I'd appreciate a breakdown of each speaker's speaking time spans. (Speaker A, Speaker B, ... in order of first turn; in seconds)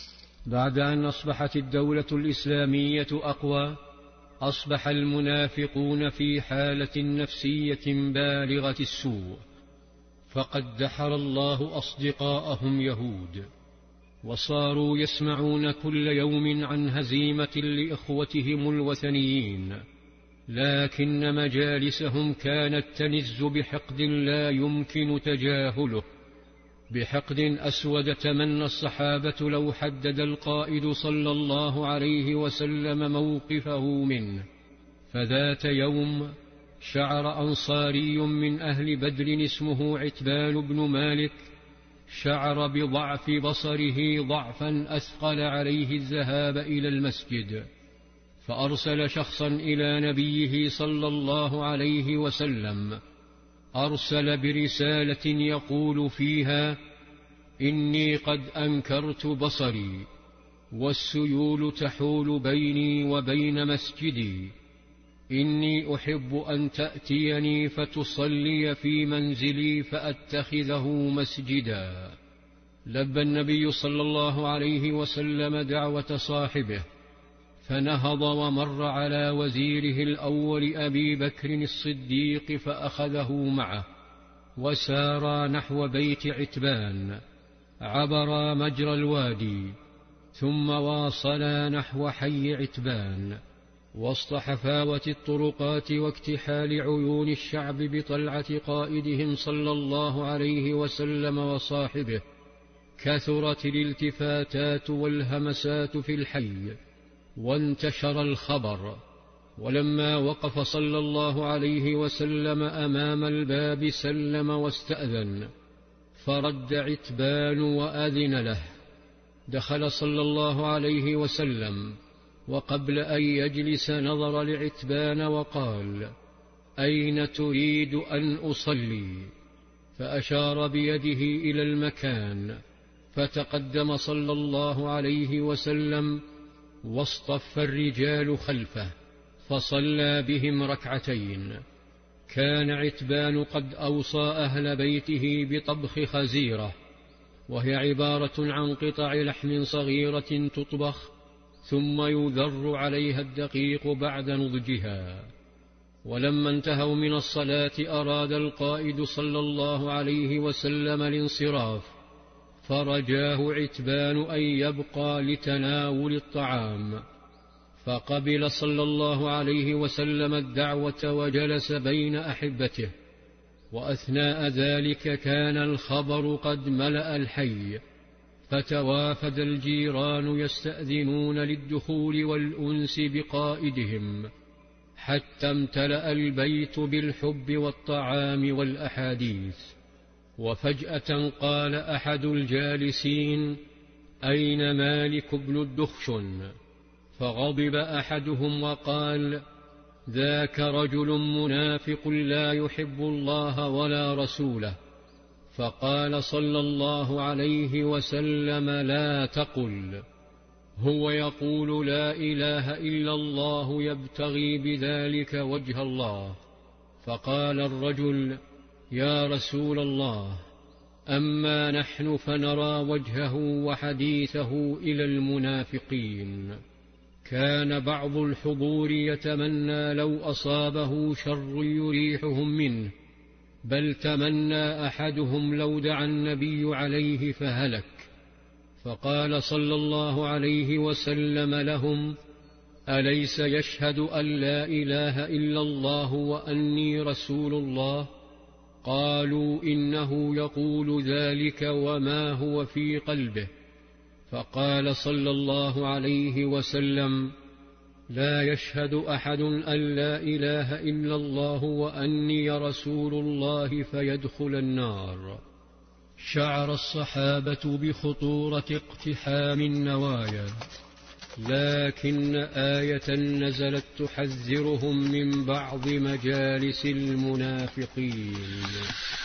Speaker A: 0.5-3.8, 4.4-9.4, 10.3-13.5, 14.2-19.8, 20.5-26.0, 26.9-34.5, 35.1-41.5, 42.1-47.7, 48.4-53.0, 53.8-56.8, 57.6-60.1, 60.7-64.5, 65.3-72.2, 72.9-76.9, 77.6-83.9, 84.6-87.2, 87.8-89.8, 90.3-93.4, 93.9-102.2, 103.0-106.8, 107.4-109.0, 109.6-115.5, 116.2-118.8, 119.5-122.0, 122.5-126.1, 126.8-129.3, 129.9-132.6, 133.1-136.2, 136.8-138.9, 139.4-141.6, 142.3-146.8, 147.5-151.1, 151.6-155.3, 156.0-161.9, 162.6-167.0, 167.8-172.9, 173.7-177.8, 178.5-184.3, 185.0-189.7, 190.4-193.6, 194.2-196.5, 197.2-199.4, 200.1-204.8, 205.5-210.0, 210.8-216.4, 217.0-218.4, 218.9-220.4, 221.1-226.6, 227.2-232.9, 233.6-238.1, 238.8-242.2, 242.9-248.1, 248.8-253.5, 254.3-257.3, 258.1-265.4, 266.2-270.6, 271.4-278.9